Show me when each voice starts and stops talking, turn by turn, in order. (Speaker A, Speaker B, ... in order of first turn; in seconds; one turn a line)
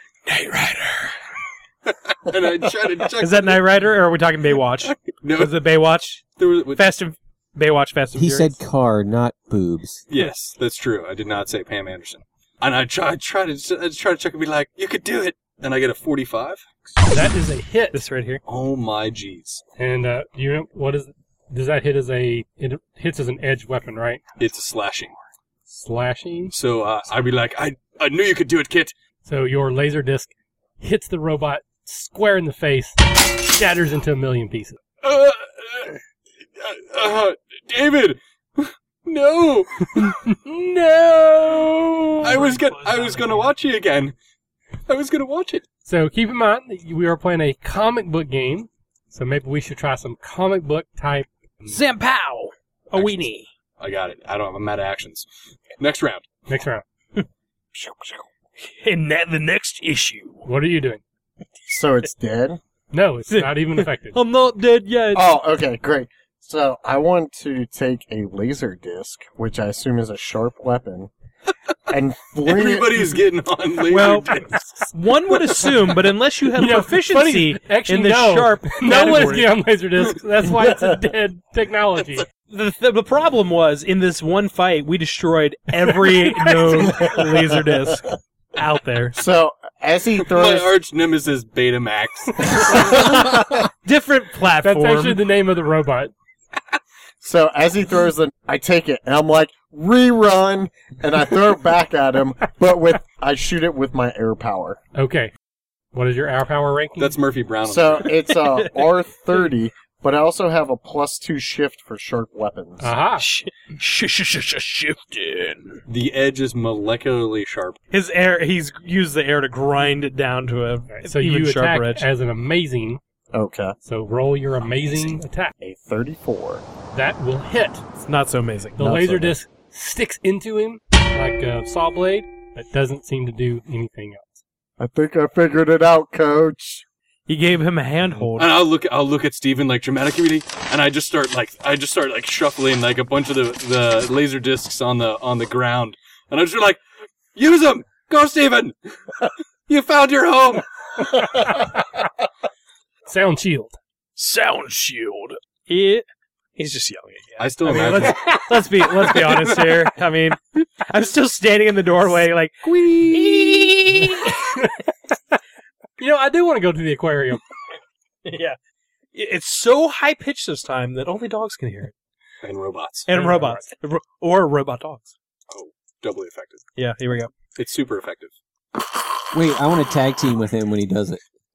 Speaker A: 0.2-1.1
Speaker B: 1.9-3.7
Speaker A: 3.2-6.2
Speaker B: 4.8-5.6
Speaker B: 6.4-6.9
Speaker A: 6.8-8.5
Speaker C: 8.1-10.0
Speaker B: 10.1-16.8
Speaker D: 17.1-18.0
Speaker A: 17.9-18.4
Speaker B: 18.4-19.6
Speaker D: 19.8-24.2
Speaker B: 24.4-25.1
Speaker D: 25.7-26.5
Speaker B: 26.5-28.9
Speaker D: 29.2-34.8
Speaker B: 35.0-36.0
Speaker B: 36.6-40.2
Speaker D: 40.2-42.4
Speaker B: 42.2-44.1
Speaker A: 42.2-43.5
Speaker B: 44.9-45.6
Speaker D: 45.9-51.8
Speaker A: 51.7-53.5
Speaker B: 52.9-53.3
Speaker B: 53.8-55.2
Speaker B: 55.8-56.3
Speaker D: 56.5-56.8
Speaker E: 57.7-58.2
Speaker A: 58.6-60.5
Speaker D: 60.5-61.0
Speaker E: 61.7-62.6
Speaker D: 62.9-64.2
Speaker A: 63.3-65.3
Speaker E: 65.1-71.1
Speaker E: 71.9-73.2
Speaker B: 72.4-74.6
Speaker A: 73.9-79.5
Speaker D: 76.5-82.2
Speaker A: 82.5-88.0
Speaker D: 86.1-86.9
Speaker E: 86.9-87.8
Speaker A: 88.5-89.2
Speaker E: 89.1-90.7
Speaker B: 90.2-93.0
Speaker E: 92.6-93.7
Speaker A: 93.8-95.2
Speaker D: 94.6-96.1
Speaker E: 97.2-104.8
Speaker D: 104.9-105.3
Speaker D: 105.9-107.2
Speaker B: 107.0-108.2
Speaker E: 107.6-112.9
Speaker A: 108.5-108.9
Speaker D: 112.8-113.3
Speaker A: 113.2-115.8
Speaker B: 115.9-117.8
Speaker A: 117.9-122.1
Speaker D: 120.9-123.0
Speaker E: 123.3-123.8
Speaker D: 123.8-125.5
Speaker E: 125.6-126.6
Speaker D: 126.9-127.8
Speaker A: 128.0-129.1
Speaker D: 128.7-134.4
Speaker E: 128.8-129.3
Speaker E: 134.8-136.8
Speaker A: 137.3-138.5
Speaker B: 138.4-146.8
Speaker B: 147.3-148.7
Speaker B: 149.7-151.2
Speaker D: 153.1-153.8
Speaker A: 154.2-156.0
Speaker A: 156.6-164.6
Speaker B: 157.4-159.9
Speaker D: 157.7-158.3
Speaker D: 163.1-164.8
Speaker D: 166.0-167.4
Speaker A: 168.2-168.6
Speaker A: 169.1-171.9
Speaker B: 172.4-173.1
Speaker A: 173.1-175.1
Speaker D: 173.1-173.7
Speaker B: 175.5-176.7
Speaker A: 176.8-177.3
Speaker B: 177.6-178.3
Speaker C: 179.3-181.2